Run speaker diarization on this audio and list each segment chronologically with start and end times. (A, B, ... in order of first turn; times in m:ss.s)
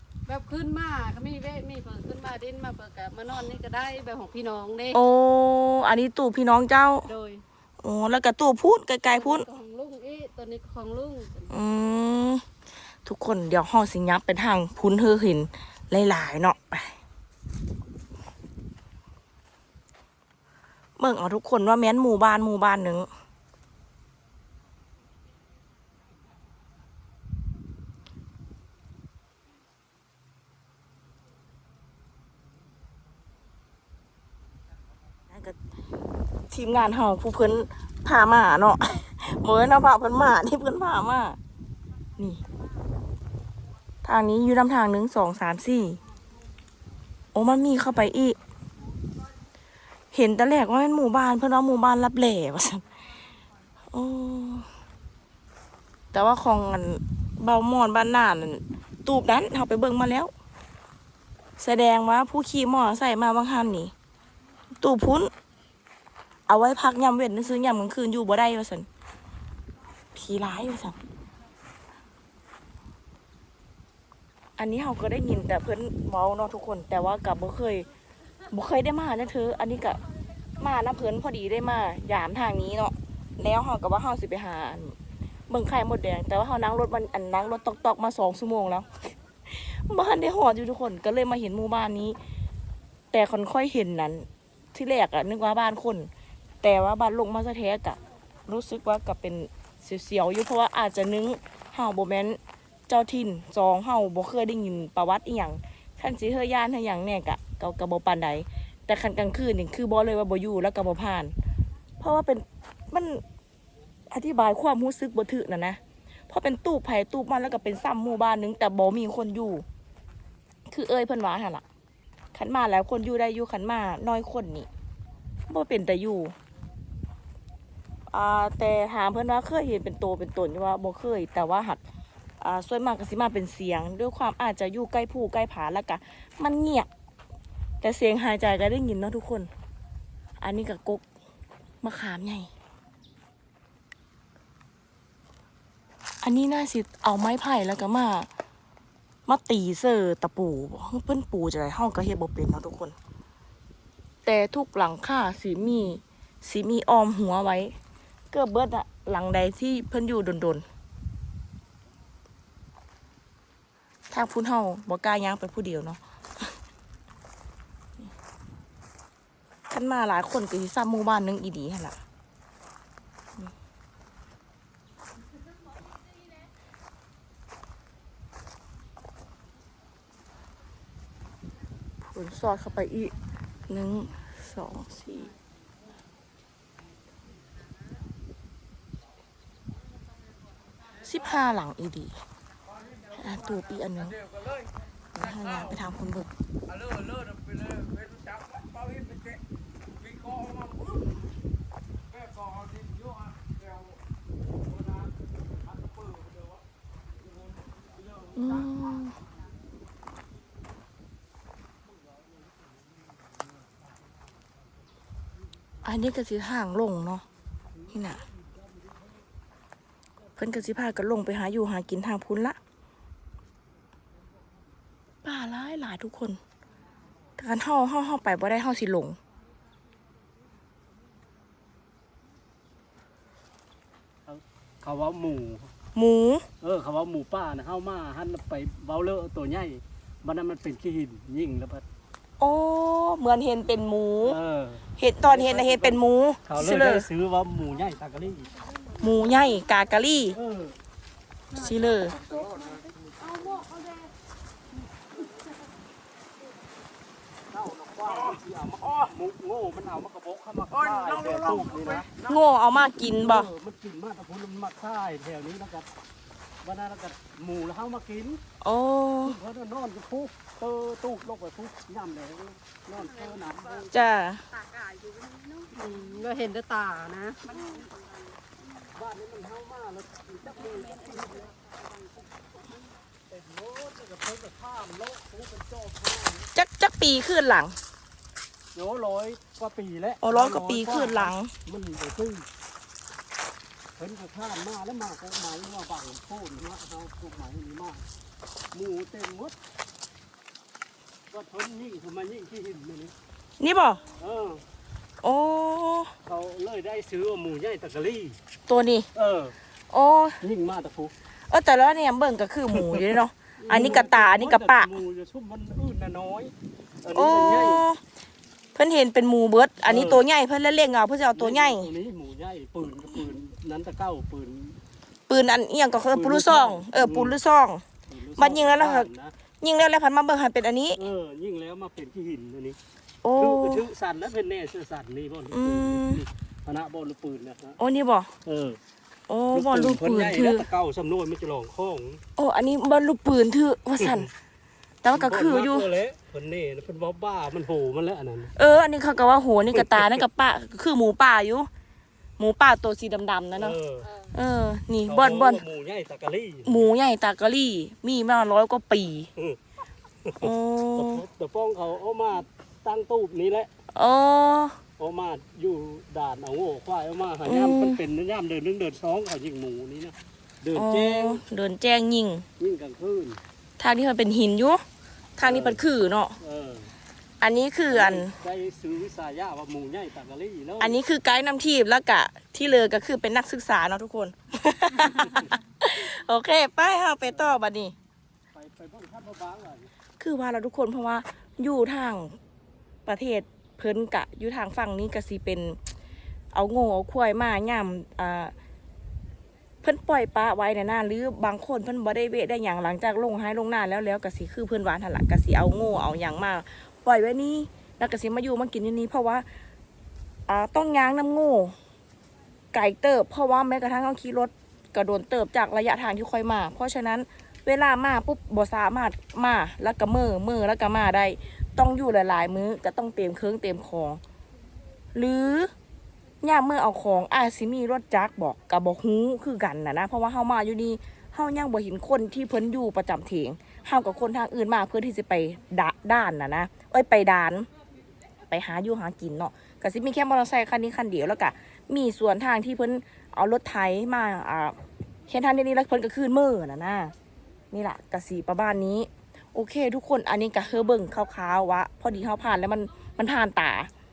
0:00.3-0:05.0 A
0:04.9-0:07.1 B
0:07.0-0:07.4 A
0:07.8-0:09.5 B
0:09.1-0:11.5 A
0:11.5-0:12.4 B
0:13.0-0:16.9 B
0:21.0-0:23.1 B
0:35.3-0:35.6 B
0:36.5-0:41.4 B
0:44.0-0:46.0 B
0:47.3-0:48.4 B
0:50.1-0:52.8 B
0:53.9-0:54.7 B
0:56.1-1:00.3 B
1:01.6-1:03.9 B
1:04.8-1:05.3 B
1:06.5-1:08.9 B
1:10.1-1:11.0 B
1:14.6-1:17.9 B
1:18.5-1:20.0 B
1:20.6-1:25.0 B
1:25.5-1:32.2 B
1:33.1-1:36.1 B
1:36.6-1:51.3 B
1:52.0-1:53.2 B
1:54.1-1:59.6 B
2:00.7-2:01.6 B
2:02.3-2:04.7 B
2:05.5-2:06.4 B
2:08.1-2:11.8 B
2:12.4-2:16.9 B
2:17.8-2:19.5 B
2:20.4-2:21.0 B
2:21.8-2:22.5 B
2:26.2-2:28.3 B
2:29.3-2:33.0 B
2:34.2-2:37.8 B
2:38.3-2:40.6 B
2:44.1-2:46.4 B
2:49.7-2:52.0 B
3:02.1-3:03.2 B
3:03.7-3:05.3 B
3:11.0-3:12.2 B
3:13.2-3:14.2 B
3:15.1-3:16.3 B
3:28.4-3:29.2 B
3:35.8-3:37.2 B
3:37.9-3:38.2 B
3:40.4-3:42.6 B
3:45.2-3:46.4 B
3:47.4-3:49.2 B
3:54.3-3:55.7 C
3:56.0-3:56.5 B
3:56.6-4:01.8 C
4:02.4-4:04.4 B
4:04.2-4:08.6 C
4:05.0-4:07.1 B
4:09.0-4:10.4 B
4:10.3-4:10.8 C
4:11.5-4:14.1 A
4:11.6-4:12.2 B
4:17.5-4:22.1 C
4:22.2-4:23.5 B
4:22.9-4:25.9 C
4:26.6-4:28.4 C
4:28.6-4:29.4 B
4:29.2-4:34.0 C
4:33.0-4:38.9 A
4:33.9-4:34.4 B
4:39.0-4:41.5 C
4:40.4-4:41.8 A
4:43.3-4:46.5 C
4:46.5-4:47.8 B
4:48.8-4:52.5 C
4:50.2-4:51.5 B
4:54.0-4:58.0 C
4:58.7-4:59.6 C
5:01.3-5:03.1 C
5:03.6-5:04.0 B
5:04.2-5:04.6 C
5:05.2-5:06.1 B
5:06.2-5:08.4 C
5:08.7-5:09.1 B
5:09.2-5:09.6 C
5:09.9-5:10.4 B
5:10.4-5:11.1 C
5:11.5-5:14.9 B
5:12.7-5:13.2 C
5:13.6-5:14.1 A
5:13.7-5:17.8 C
5:17.1-5:18.0 B
5:18.8-5:21.9 B
5:19.8-5:20.2 C
5:21.3-5:24.8 C
5:25.3-5:27.8 B
5:26.1-5:27.4 C
5:28.1-5:29.4 C
5:28.4-5:31.0 B
5:31.0-5:32.8 C
5:33.2-5:33.9 B
5:33.3-5:37.8 C
5:35.5-5:36.2 B
5:37.8-5:38.3 B
5:38.4-5:38.8 C
5:39.3-5:40.7 B
5:39.5-5:42.2 C
5:42.4-5:44.3 B
5:45.0-5:45.9 B
5:45.1-5:48.5 C
5:48.6-5:51.7 B
5:49.7-5:50.2 C
5:52.4-5:53.8 B
5:53.6-5:54.1 C
5:54.0-5:54.4 A
5:54.3-5:55.6 B
5:55.1-5:56.9 C
5:56.7-5:59.3 B
6:00.2-6:03.7 C
6:00.4-6:01.2 B
6:03.9-6:04.8 B
6:05.0-6:11.4 C
6:07.4-6:08.0 B
6:10.7-6:12.5 B
6:12.6-6:13.4 C
6:13.8-6:14.8 B
6:15.4-6:16.4 B
6:15.4-6:15.8 C
6:16.4-6:16.9 C
6:17.4-6:18.4 B
6:17.9-6:21.0 C
6:20.8-6:28.0 B
6:27.3-6:27.6 C
6:28.5-6:29.9 C
6:30.2-6:32.4 B
6:33.1-6:35.8 B
6:36.5-6:38.5 B
6:39.8-6:49.5 B
6:50.5-6:51.7 B
6:52.7-7:04.2 B
7:05.2-7:05.7 B
7:06.4-7:17.7 B
7:18.5-7:24.8 B
7:25.3-7:27.1 B
7:27.7-7:33.9 B